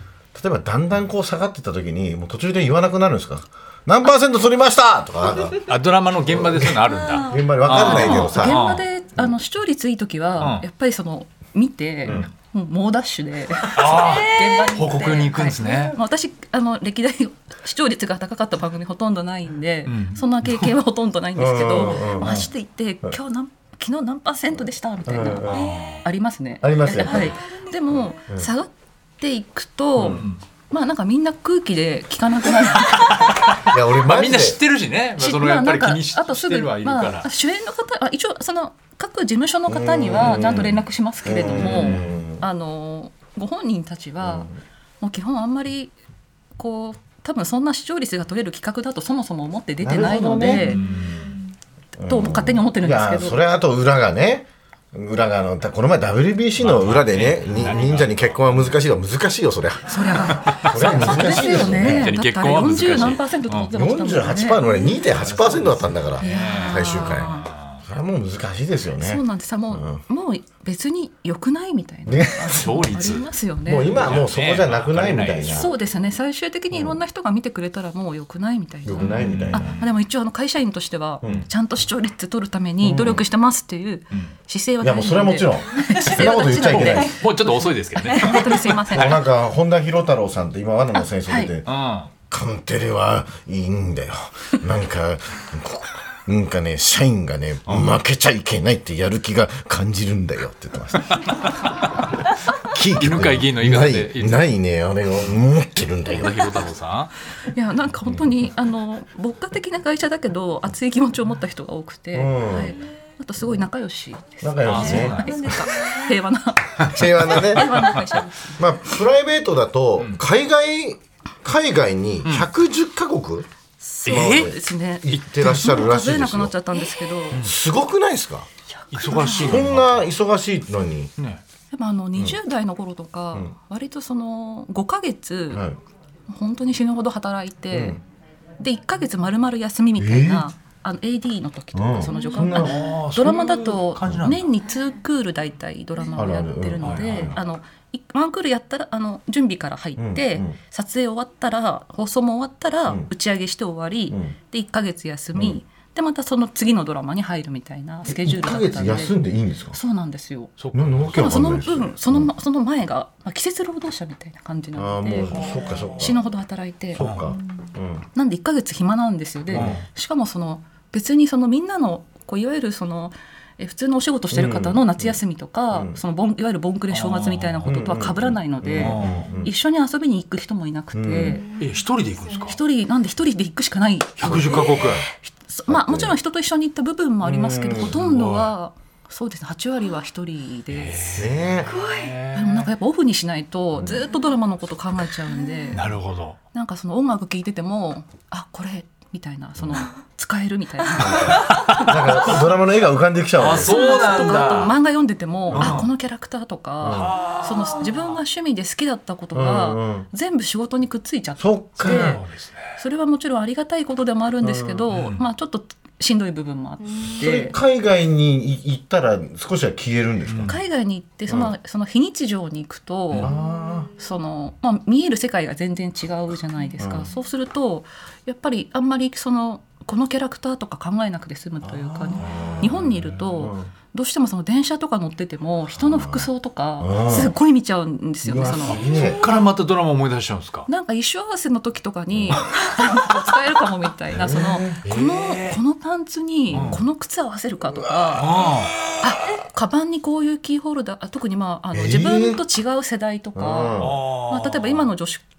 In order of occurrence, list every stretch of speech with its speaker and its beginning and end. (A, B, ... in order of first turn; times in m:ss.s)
0:00.3-0:05.6 A
0:05.6-0:08.8 B
0:06.3-0:08.6 A
0:07.7-0:33.1 C
0:10.4-0:10.6 B
0:13.7-0:15.9 B
0:19.9-0:20.7 B
0:21.4-0:22.3 A
0:22.2-0:22.5 B
0:25.0-0:25.7 A
0:25.5-0:26.0 B
0:26.6-0:27.4 A
0:30.0-0:30.4 B
0:32.9-0:37.3 B
0:33.6-0:34.6 A
0:35.2-0:44.5 C
0:39.7-0:42.4 A
0:41.6-0:42.1 B
0:44.2-0:44.5 A
0:45.0-0:45.9 C
0:46.6-0:50.8 C
0:49.8-0:50.8 A
0:50.5-0:51.3 B
0:52.0-1:02.1 A
0:52.0-0:53.4 C
0:56.6-0:58.7 B
0:59.9-1:04.6 C
1:00.4-1:03.7 B
1:03.7-1:10.0 A
1:05.1-1:07.8 B
1:06.2-1:07.5 C
1:09.0-1:14.0 C
1:12.0-1:15.7 A
1:12.5-1:13.2 B
1:13.9-1:15.7 B
1:15.5-1:29.2 C
1:18.8-1:19.8 A
1:19.0-1:19.8 B
1:21.2-1:21.5 A
1:22.8-1:23.2 A
1:24.8-1:27.2 A
1:26.7-1:29.1 B
1:28.3-1:31.7 A
1:30.9-1:31.5 C
1:31.6-1:32.1 B
1:32.3-1:41.2 A
1:37.7-1:38.0 B
1:42.6-1:46.5 A
1:42.9-1:44.5 B
1:46.1-1:47.1 B
1:47.4-1:58.6 C
1:52.1-1:52.8 A
1:54.4-1:55.3 A
1:54.6-1:55.7 B
1:56.8-1:57.9 A
1:57.6-1:58.0 B
1:58.6-2:03.5 A
2:03.8-2:07.4 C
2:04.0-2:04.5 B
2:04.0-2:06.5 A
2:05.1-2:05.5 B
2:07.3-2:08.5 A
2:08.9-2:09.7 C
2:08.9-2:10.1 B
2:09.2-2:11.1 A
2:11.7-2:15.6 C
2:15.5-2:15.8 A
2:16.3-2:18.0 C
2:17.7-2:18.0 A
2:18.6-2:39.2 C
2:20.0-2:20.4 A
2:21.7-2:22.8 A
2:22.4-2:24.5 B
2:26.1-2:27.4 A
2:26.8-2:27.3 B
2:30.0-2:30.6 A
2:35.3-2:35.6 A
2:38.0-2:39.8 A
2:39.7-2:40.5 C
2:40.6-2:41.4 B
2:40.7-2:42.3 A
2:41.1-2:45.3 C
2:44.8-2:46.2 A
2:45.2-2:46.1 B
2:46.0-2:47.0 C
2:46.9-2:48.0 A
2:47.0-2:47.3 B
2:48.1-3:01.5 C
2:49.5-2:49.8 A
2:49.5-2:49.8 B
2:54.3-2:55.2 A
2:55.7-2:56.0 A
2:56.9-2:57.7 B
2:57.6-2:59.5 A
2:58.8-2:59.2 B
3:00.9-3:01.4 A
3:01.5-3:02.6 B
3:02.4-3:11.2 C
3:04.2-3:05.0 B
3:04.2-3:05.0 A
3:05.7-3:06.2 A
3:07.2-3:08.0 A
3:07.9-3:08.5 B
3:10.7-3:12.7 B
3:11.1-3:11.8 A
3:12.3-3:15.8 C
3:13.8-3:14.0 A
3:15.7-3:16.4 B
3:16.5-3:21.9 C
3:21.0-3:23.8 A
3:21.1-3:22.0 B
3:23.4-3:24.7 B
3:23.6-3:32.2 C
3:25.5-3:25.8 A
3:25.5-3:25.9 B
3:26.8-3:27.1 A
3:26.9-3:28.0 B
3:29.3-3:30.1 A
3:31.4-3:32.2 A
3:31.8-3:32.8 B
3:32.8-3:37.6 C
3:34.4-3:34.8 A
3:34.9-3:35.2 B
3:37.1-3:40.6 A
3:40.3-3:40.6 B
3:40.4-3:43.3 C
3:43.2-3:43.9 A
3:44.0-3:58.9 C
3:46.8-3:47.1 A
3:51.6-3:53.7 A
3:55.8-3:56.3 A
3:56.8-3:57.3 A
3:58.2-3:59.2 A
3:58.7-4:00.7 B
4:00.7-4:08.2 C
4:02.1-4:02.4 A
4:04.1-4:04.8 A
4:04.8-4:05.6 B
4:06.5-4:06.8 A
4:06.5-4:06.8 B
4:07.7-4:08.2 A
4:08.2-4:08.8 B
4:09.0-4:15.2 C
4:11.7-4:12.4 A
4:13.3-4:14.0 A
4:13.8-4:14.8 B